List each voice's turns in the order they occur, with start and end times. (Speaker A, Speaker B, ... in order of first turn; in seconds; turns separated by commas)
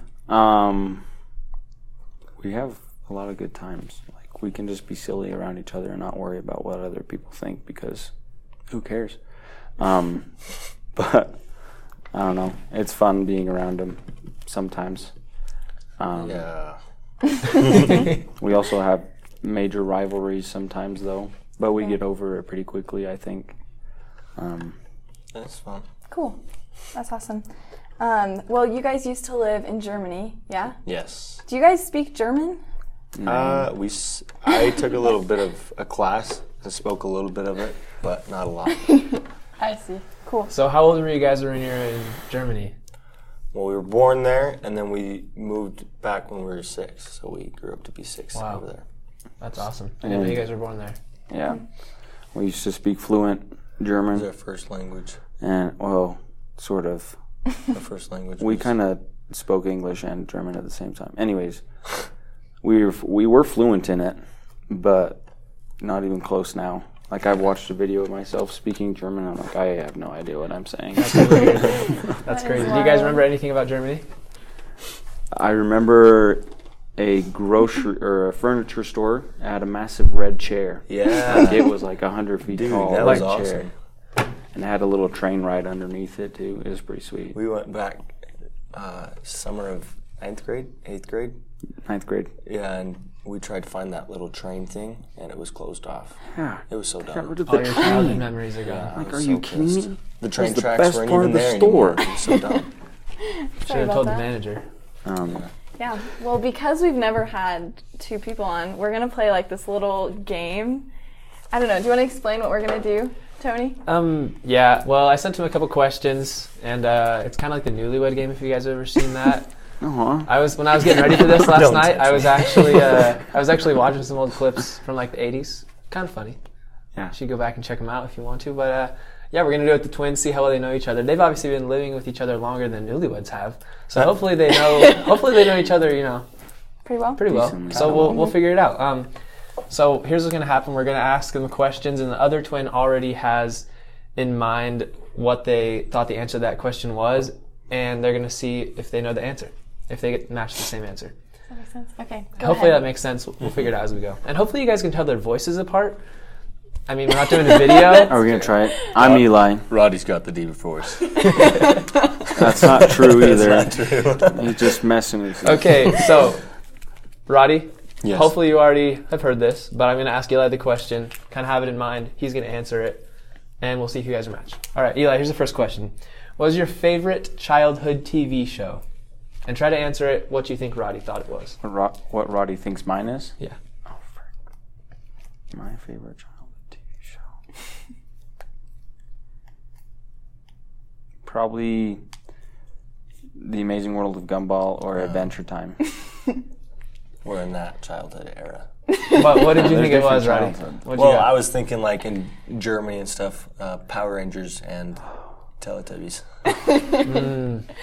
Speaker A: 0.3-1.0, Speaker A: 2.4-8.1, Speaker A: 8.7-9.2, Speaker A: 9.8-10.3, Speaker A: 10.9-11.4, Speaker A: 12.1-15.1, Speaker A: 16.0-16.4, Speaker B: 16.2-16.8, Speaker A: 18.1-23.5, Speaker A: 24.4-24.8, Speaker B: 25.3-25.9, Speaker C: 26.1-26.4, Speaker C: 26.9-27.4, Speaker C: 28.0-30.8, Speaker B: 30.8-31.4, Speaker C: 31.4-32.6, Speaker A: 33.1-33.7, Speaker B: 33.2-39.1, Speaker C: 39.6-40.5, Speaker D: 40.5-42.7, Speaker B: 43.5-48.8, Speaker D: 48.3-48.6, Speaker D: 49.4-51.0, Speaker A: 50.0-50.4, Speaker A: 51.3-51.6, Speaker A: 52.3-54.3, Speaker B: 54.1-55.2, Speaker A: 55.4-57.1, Speaker B: 57.7-58.7, Speaker A: 58.4-61.6, Speaker A: 62.6-64.2, Speaker A: 64.7-65.2, Speaker A: 65.8-71.6, Speaker D: 71.0-74.0, Speaker C: 72.2-73.2, Speaker A: 75.3-76.5, Speaker A: 77.0-83.7, Speaker B: 80.9-81.7, Speaker B: 82.5-83.7, Speaker A: 84.5-87.4, Speaker B: 87.3-88.1, Speaker B: 88.7-91.3, Speaker A: 91.8-92.3, Speaker B: 92.4-96.2, Speaker A: 96.3-98.2, Speaker B: 96.7-97.8, Speaker D: 97.5-98.9, Speaker B: 98.7-102.7, Speaker A: 98.9-102.1, Speaker C: 103.2-104.2, Speaker D: 103.7-104.6, Speaker A: 105.0-105.4, Speaker C: 105.8-110.8, Speaker C: 111.5-113.8, Speaker D: 113.8-119.5, Speaker A: 119.8-120.3, Speaker D: 120.2-126.4, Speaker B: 121.3-122.9, Speaker D: 127.1-136.2, Speaker C: 136.8-137.2, Speaker D: 137.2-139.1, Speaker A: 137.3-138.2, Speaker D: 139.7-143.6, Speaker D: 144.2-151.1, Speaker C: 151.5-152.8, Speaker D: 152.4-156.0, Speaker D: 156.9-158.3, Speaker A: 158.0-159.7, Speaker B: 159.0-161.7, Speaker A: 162.3-165.7, Speaker B: 162.5-164.7, Speaker D: 165.4-166.4, Speaker D: 167.3-173.0, Speaker B: 168.0-168.3, Speaker D: 173.6-178.8, Speaker D: 179.4-181.6, Speaker A: 181.6-183.3, Speaker A: 185.5-187.2, Speaker A: 191.2-192.0, Speaker A: 193.4-195.8, Speaker B: 197.2-198.7, Speaker D: 199.1-201.3, Speaker A: 199.4-200.8, Speaker B: 200.9-205.0, Speaker B: 205.6-206.2, Speaker D: 207.0-207.6